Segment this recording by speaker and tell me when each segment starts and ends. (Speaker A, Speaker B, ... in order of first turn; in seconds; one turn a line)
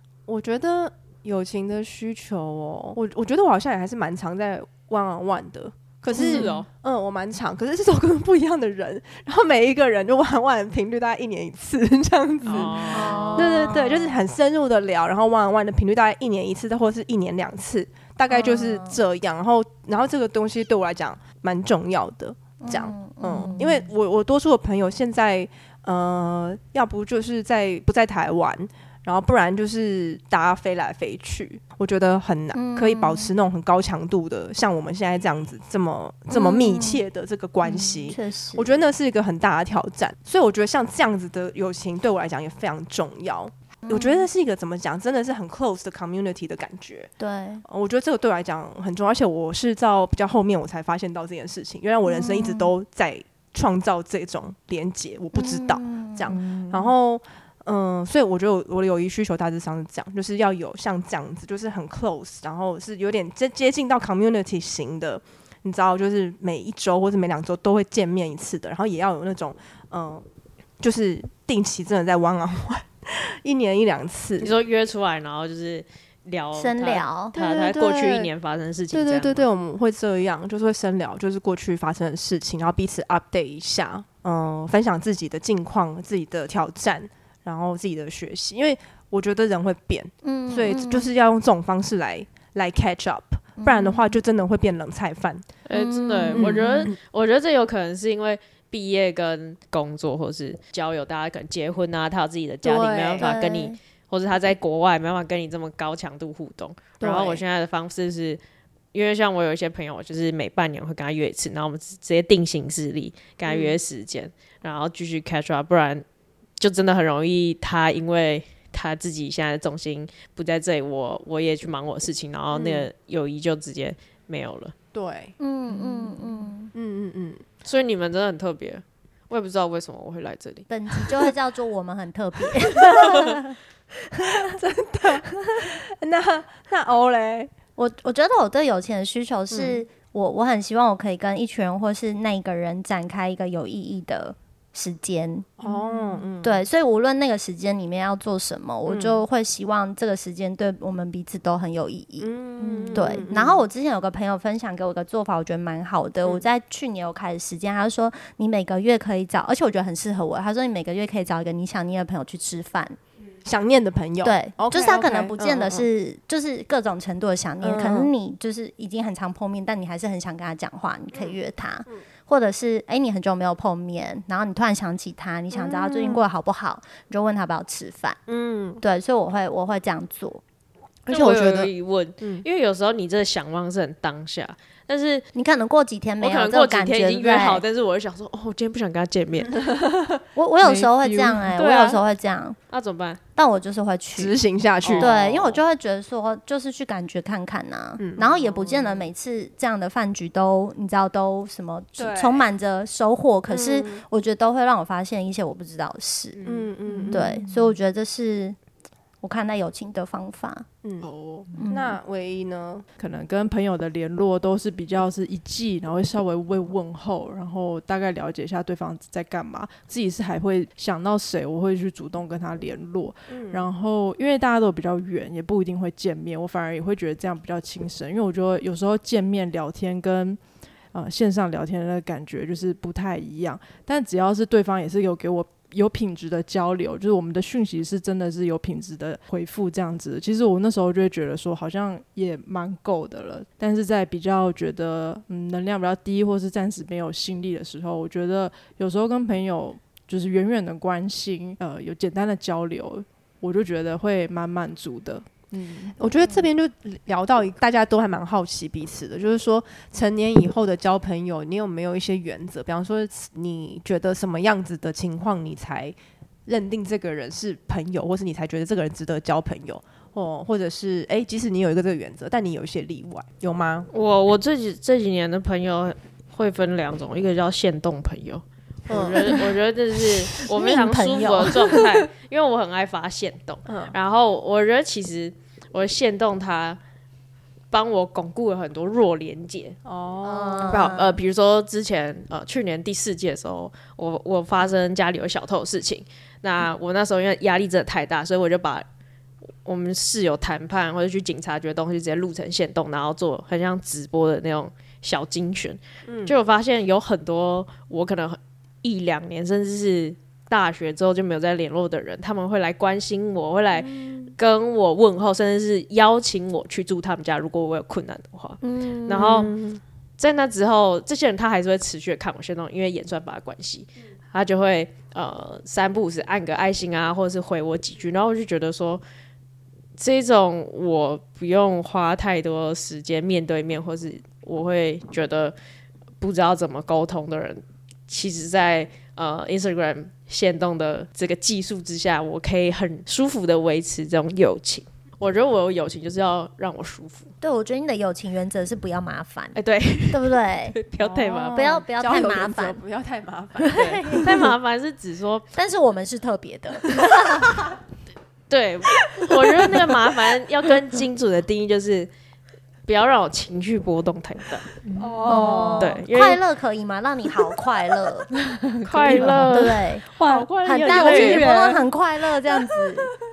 Speaker A: 0.3-47.1
Speaker B: 6.1-6.5
Speaker C: 6.2-6.7
Speaker D: 6.3-6.6
Speaker C: 12.4-13.9
Speaker B: 12.9-14.2
Speaker B: 18.3-19.0
Speaker B: 22.6-23.9
Speaker B: 32.5-33.3
Speaker B: 36.3-37.0
Speaker B: 37.6-38.8
Speaker B: 43.8-44.3
Speaker B: 47.2-47.6
Speaker A: 47.6-70.2
Speaker B: 52.0-52.7
Speaker B: 55.3-56.3
Speaker D: 56.3-56.9
Speaker A: 70.8-74.5
Speaker C: 74.4-79.5
Speaker B: 76.6-77.4
Speaker A: 77.3-78.3
Speaker A: 78.9-95.5
Speaker B: 90.2-91.1
Speaker B: 93.6-94.2
Speaker C: 95.7-108.4
Speaker B: 95.7-96.9
Speaker A: 96.3-97.0
Speaker A: 102.6-103.3
Speaker B: 103.2-103.8
Speaker A: 107.0-107.4
Speaker C: 108.9-116.0
Speaker A: 113.5-113.8
Speaker C: 116.6-124.7
Speaker A: 122.5-122.9
Speaker A: 124.9-125.3
Speaker B: 125.4-126.7
Speaker D: 125.7-126.1
Speaker A: 126.7-127.5
Speaker C: 127.7-130.7
Speaker B: 130.7-133.6
Speaker B: 134.1-134.6
Speaker A: 134.4-137.5
Speaker B: 137.8-145.5
Speaker A: 139.5-139.8
Speaker A: 145.6-146.6
Speaker D: 145.6-146.2
Speaker B: 146.4-152.3
Speaker A: 148.9-149.2
Speaker A: 152.2-153.7
Speaker D: 152.6-153.2
Speaker B: 152.9-163.0
Speaker A: 163.4-165.9
Speaker B: 164.2-178.2
Speaker A: 167.6-168.1
Speaker A: 175.5-176.2
Speaker A: 178.3-178.8
Speaker B: 178.8-180.4
Speaker B: 181.1-181.7
Speaker C: 181.1-185.3
Speaker B: 185.3-187.6
Speaker C: 186.2-189.7
Speaker A: 189.6-190.2
Speaker B: 190.3-192.6
Speaker D: 190.6-191.5
Speaker C: 191.6-192.0
Speaker C: 192.7-193.2
Speaker B: 193.4-194.3
Speaker A: 194.2-195.1
Speaker C: 194.8-195.6
Speaker B: 195.0-206.4
Speaker A: 198.0-198.9
Speaker A: 202.0-202.5
Speaker A: 203.5-204.0
Speaker C: 206.4-206.7
Speaker A: 206.4-207.4
Speaker D: 206.9-207.7
Speaker B: 207.1-208.6
Speaker B: 209.2-210.7
Speaker A: 210.8-212.9
Speaker B: 211.6-212.0
Speaker D: 213.0-230.4
Speaker A: 223.3-223.7
Speaker D: 230.9-256.0
Speaker A: 256.0-273.9
Speaker C: 273.9-286.8
Speaker A: 278.9-279.4
Speaker B: 280.4-281.9
Speaker A: 283.7-283.9
Speaker C: 287.7-289.8
Speaker A: 289.9-291.0
Speaker B: 290.2-291.1
Speaker C: 290.7-298.9
Speaker C: 299.6-319.5
Speaker A: 306.1-306.4
Speaker A: 313.8-314.3
Speaker B: 318.6-319.2
Speaker A: 319.1-319.8
Speaker C: 320.2-329.0
Speaker C: 330.0-335.6
Speaker C: 336.2-347.3
Speaker B: 347.4-349.6
Speaker C: 349.6-351.9
Speaker B: 350.1-350.8
Speaker A: 351.0-354.1
Speaker B: 351.5-352.8
Speaker B: 353.6-354.5
Speaker C: 353.7-355.4
Speaker B: 355.6-357.7
Speaker C: 358.5-362.1
Speaker A: 359.1-359.8
Speaker C: 362.9-364.7
Speaker D: 364.8-365.9
Speaker A: 365.0-365.8
Speaker B: 365.3-368.3
Speaker C: 365.8-366.4
Speaker D: 368.4-371.9
Speaker C: 368.9-371.5
Speaker B: 369.0-370.1
Speaker B: 370.6-373.1